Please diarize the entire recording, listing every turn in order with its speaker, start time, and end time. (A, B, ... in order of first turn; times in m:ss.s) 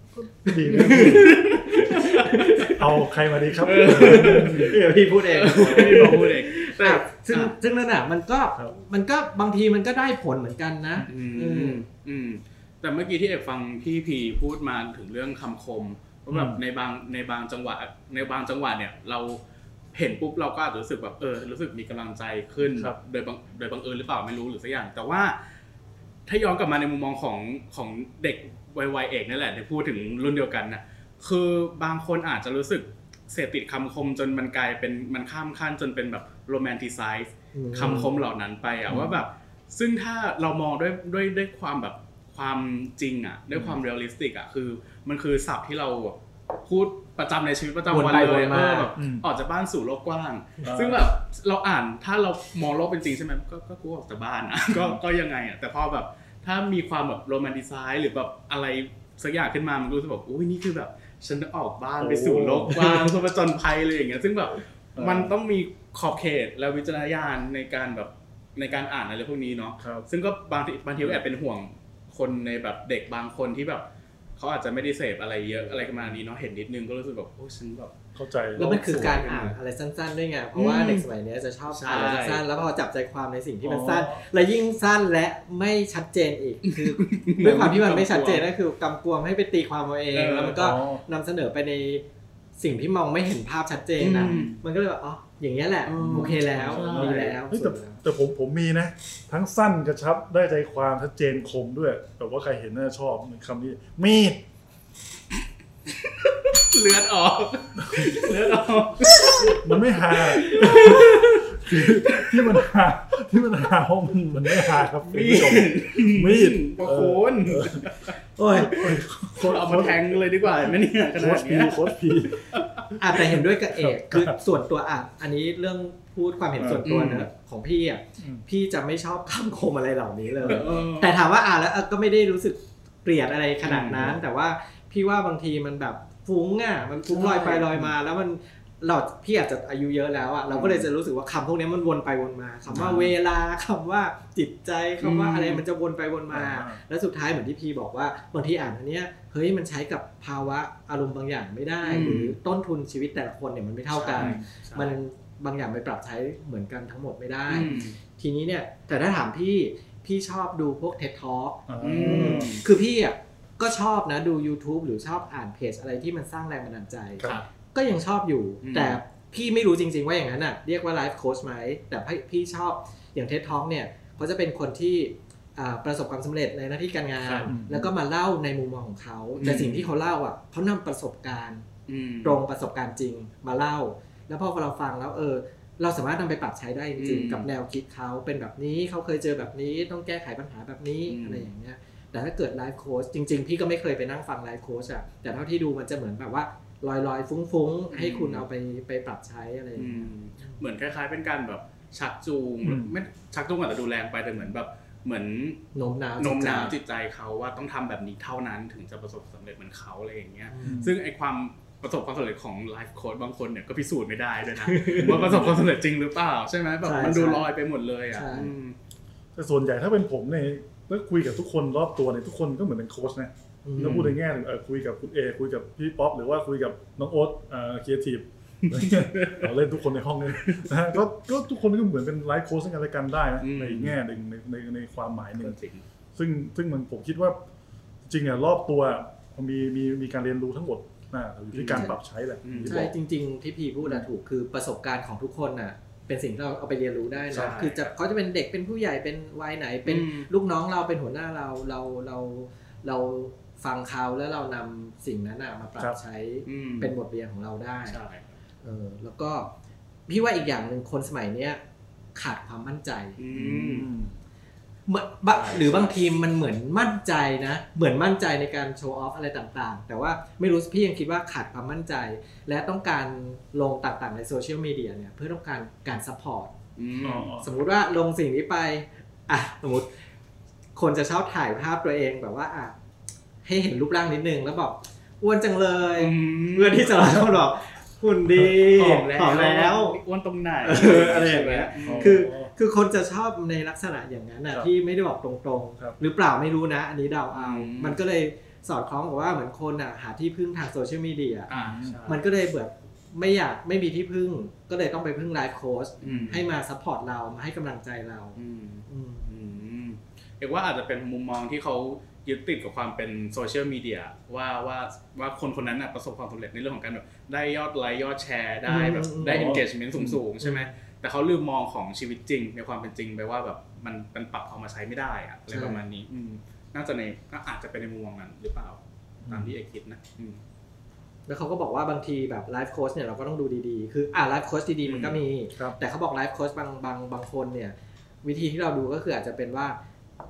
0:00.1-0:01.6 A
0:00.4-0:02.8 B
0:00.7-0:02.7 C
0:02.6-0:04.8 A
0:03.6-0:07.5 C
0:03.6-0:11.8 B
0:05.6-0:06.2 A
0:11.1-0:19.4 C
0:16.3-0:16.6 A
0:19.9-0:25.4 C
0:22.6-0:23.0 A
0:26.2-1:13.8 C
0:37.5-0:38.1 B
0:38.9-0:39.1 A
0:43.5-0:43.8 A
0:47.9-0:48.9 B
0:49.0-0:49.2 A
0:50.6-0:51.0 A
0:54.7-0:55.0 A
1:02.0-1:02.9 A
1:05.0-1:05.3 A
1:09.8-1:10.0 A
1:14.4-1:17.9 C
1:15.4-1:16.2 A
1:18.1-1:19.2 A
1:18.6-1:19.5 C
1:18.6-1:32.0 B
1:20.6-1:21.0 C
1:21.7-1:22.4 C
1:23.6-1:24.2 A
1:26.6-1:28.5 C
1:30.1-1:30.7 C
1:30.6-1:31.0 A
1:32.6-1:38.0 B
1:34.0-1:34.6 C
1:34.1-1:34.6 A
1:35.9-1:37.4 C
1:36.5-1:44.4 A
1:45.9-1:52.6 C
1:47.8-1:48.3 A
1:49.5-2:03.2 A
1:54.8-1:58.1 C
1:58.4-1:58.8 B
1:58.7-2:02.9 C
2:03.0-3:01.7 B
2:03.7-2:04.4 A
2:06.6-2:06.9 A
2:06.8-2:07.3 C
2:08.2-2:08.4 A
2:10.4-2:11.2 C
2:10.4-2:10.8 A
2:13.6-2:14.1 C
2:17.0-2:17.7 C
2:20.5-2:20.8 C
2:22.7-2:23.1 A
2:22.7-2:23.0 C
2:25.0-2:25.6 C
2:26.3-2:26.8 A
2:31.8-2:32.3 C
2:32.0-2:32.3 A
2:33.9-2:34.9 C
2:34.2-2:34.4 A
2:37.5-2:38.0 C
2:41.7-2:42.5 A
2:41.8-2:42.6 C
2:48.6-2:49.0 C
2:57.2-2:57.5 C
2:57.5-2:57.9 A
2:59.4-2:59.9 C
3:01.9-3:02.4 C
3:02.2-3:20.6 B
3:07.0-3:07.5 C
3:11.1-3:11.5 C
3:17.9-3:18.4 C
3:19.8-3:25.6 C
3:22.6-3:22.9 A
3:25.7-3:26.7 B
3:26.2-3:38.8 C
3:30.5-3:30.9 B
3:30.6-3:30.9 A
3:34.6-3:35.5 B
3:35.0-3:35.6 A
3:36.8-3:37.4 B
3:38.1-3:38.5 B
3:39.3-3:55.6 A
3:43.6-3:44.0 B
3:43.8-3:44.1 C
3:48.6-3:49.5 C
3:50.4-3:50.7 C
3:53.4-3:54.0 C
3:55.4-3:55.8 C
3:56.1-3:57.4 A
3:58.0-4:02.9 A
4:01.5-4:02.8 C
4:02.6-4:18.0 B
4:07.3-4:07.9 C
4:09.8-4:10.3 C
4:16.4-4:16.9 C
4:17.9-4:18.4 C
4:18.6-4:19.5 B
4:20.1-4:21.6 B
4:22.2-4:23.2 B
4:23.2-4:23.9 C
4:23.3-4:24.2 A
4:24.9-4:36.5 B
4:25.3-4:26.0 C
4:36.8-4:37.3 C
4:37.0-4:37.5 A
4:37.4-4:39.9 B
4:40.8-4:42.7 B
4:43.4-4:50.0 B
4:46.0-4:46.9 C
4:47.1-4:47.4 A
4:48.6-4:52.2 C
4:50.6-5:01.5 B
4:51.8-4:52.5 A
4:57.3-4:58.0 C
5:01.5-5:02.2 C
5:01.5-5:02.0 A
5:02.0-5:09.2 B
5:06.0-5:06.4 C
5:08.4-5:30.4 C
5:18.7-5:19.6 B
5:19.2-5:20.2 A
5:20.4-5:20.7 B
5:25.5-5:25.8 B
5:29.2-5:29.5 A
5:31.3-5:39.8 B
5:34.8-5:35.2 C